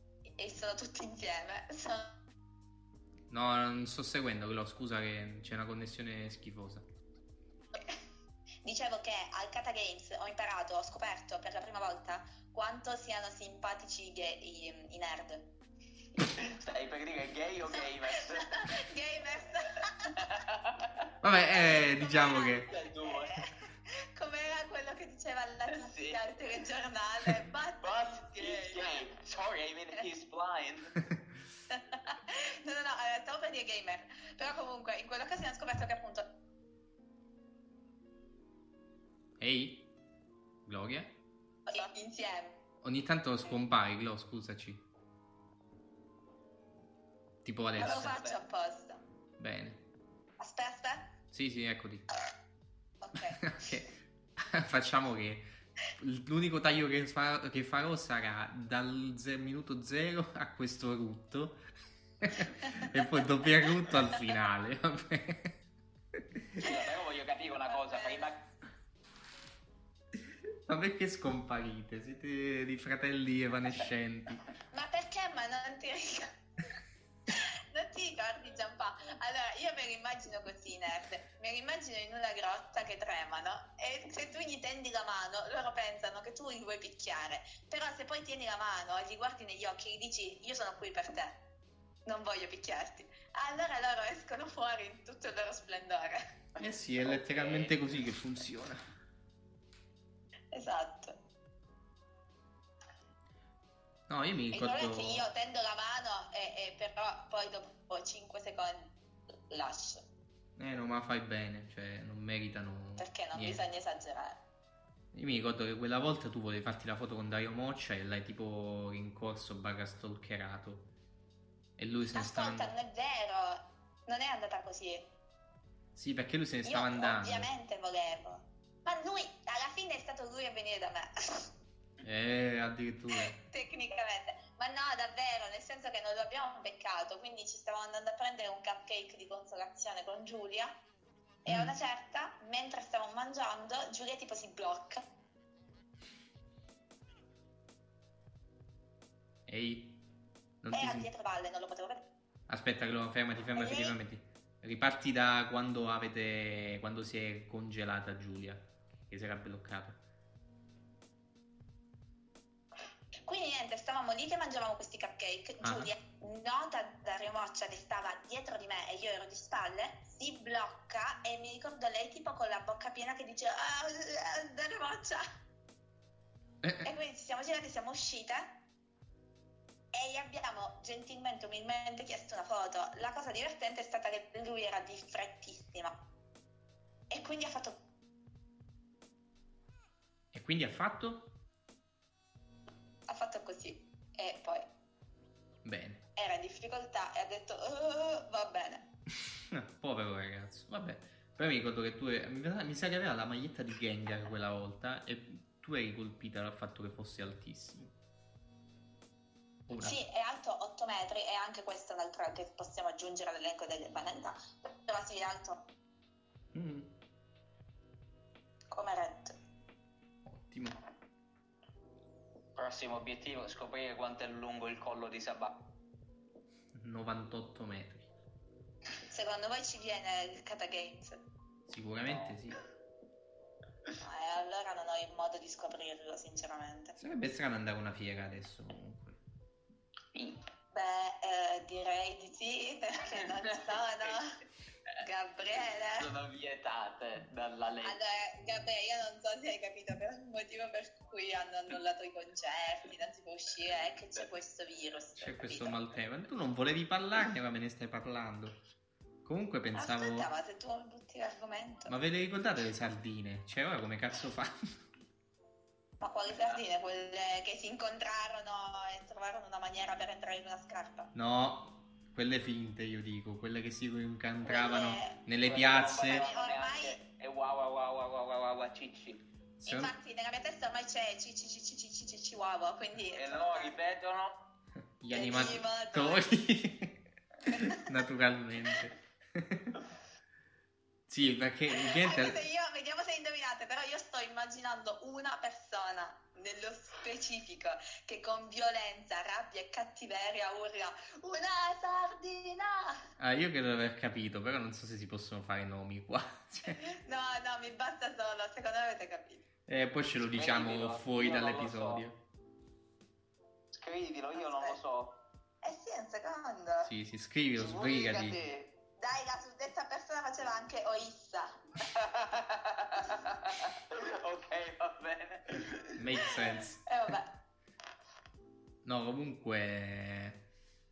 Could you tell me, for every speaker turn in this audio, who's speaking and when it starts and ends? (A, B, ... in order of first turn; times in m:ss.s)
0:00.4-0:02.2 A
0:03.3-0:06.8 B
0:08.6-0:15.5 A
0:16.2-0:18.7 C
0:18.1-0:20.1 A
0:20.1-0:21.0 C
0:21.2-0:22.7 B
0:21.5-0:29.0 A
0:22.7-0:23.4 C
0:25.7-0:26.3 C
0:27.8-0:31.0 C
0:31.7-0:36.3 A
0:39.4-0:39.9 B
0:40.6-0:41.1 B
0:41.7-0:42.6 A
0:42.8-0:44.8 B
0:47.4-0:48.2 B
0:47.8-0:48.4 C
0:47.8-0:49.0 A
0:49.4-0:49.8 B
0:50.4-0:51.1 A
0:51.3-0:52.1 B
0:53.0-0:53.8 A
0:53.4-0:55.4 B
0:56.0-1:01.6 B
1:02.2-1:05.6 B
1:02.6-1:02.9 A
1:06.2-1:06.6 B
1:06.6-1:08.4 C
1:07.6-1:08.3 A
1:10.2-1:14.4 B
1:14.7-1:16.3 A
1:17.3-1:31.4 A
1:32.0-1:36.2 A
1:36.6-1:38.8 B
1:37.2-1:37.8 C
1:40.5-1:41.2 A
1:44.1-1:45.2 B
1:44.5-1:48.9 A
1:49.5-1:50.0 A
1:50.6-1:53.6 B
1:53.0-1:54.4 A
1:55.1-2:00.9 B
2:01.8-2:02.7 B
2:02.1-2:05.1 A
2:06.0-2:07.5 B
2:06.6-2:11.5 A
2:12.0-2:13.4 B
2:13.2-2:20.7 A
2:21.4-2:25.0 A
2:29.5-2:30.0 B
2:30.6-2:31.1 B
2:30.7-2:32.1 A
2:32.5-2:40.0 B
2:33.6-2:34.0 A
2:43.1-2:55.2 A
2:45.6-2:45.9 B
2:56.8-2:58.6 A
2:59.9-3:06.0 A
3:07.1-3:07.8 A
3:10.3-3:11.3 B
3:13.1-3:14.7 A
3:15.6-3:16.0 B
3:16.2-3:18.8 A
3:19.2-3:27.9 B
3:29.7-3:30.0 B
3:29.8-3:35.6 A
3:36.5-3:36.9 B
3:38.7-3:39.3 A
3:40.2-3:40.8 B
3:42.6-3:45.6 C
3:46.7-3:48.1 B
3:49.1-3:51.2 A
3:51.7-3:52.6 B
3:52.0-3:52.4 C
3:54.0-3:57.0 A
3:57.0-3:59.2 B
4:00.7-4:04.4 A
4:03.3-4:04.2 C
4:05.0-4:06.1 A
4:06.0-4:08.0 C
4:07.8-4:15.8 A
4:15.2-4:18.6 B
4:19.2-4:20.3 B
4:19.8-4:21.9 A
4:21.9-4:24.6 B
4:26.0-4:31.1 A
4:31.1-4:36.3 B
4:34.4-4:35.2 A
4:35.4-4:39.2 C
4:35.7-4:37.0 A
4:39.6-4:39.9 B
4:39.6-4:43.8 A
4:43.1-4:44.4 C
4:45.0-4:49.8 B
4:45.1-4:46.3 A
4:51.1-4:52.4 B
4:51.7-5:03.0 A
5:03.2-5:06.8 B
5:06.7-5:09.4 A
5:09.7-5:12.2 B
5:10.3-5:12.0 C
5:13.7-5:15.2 C
5:14.4-5:14.8 A
5:15.6-5:16.9 A
5:16.8-5:18.4 B
5:17.6-5:18.7 C
5:19.0-5:21.6 A
5:21.8-5:26.0 C
5:25.9-5:26.8 B
5:26.8-5:27.3 A
5:28.8-5:30.4 B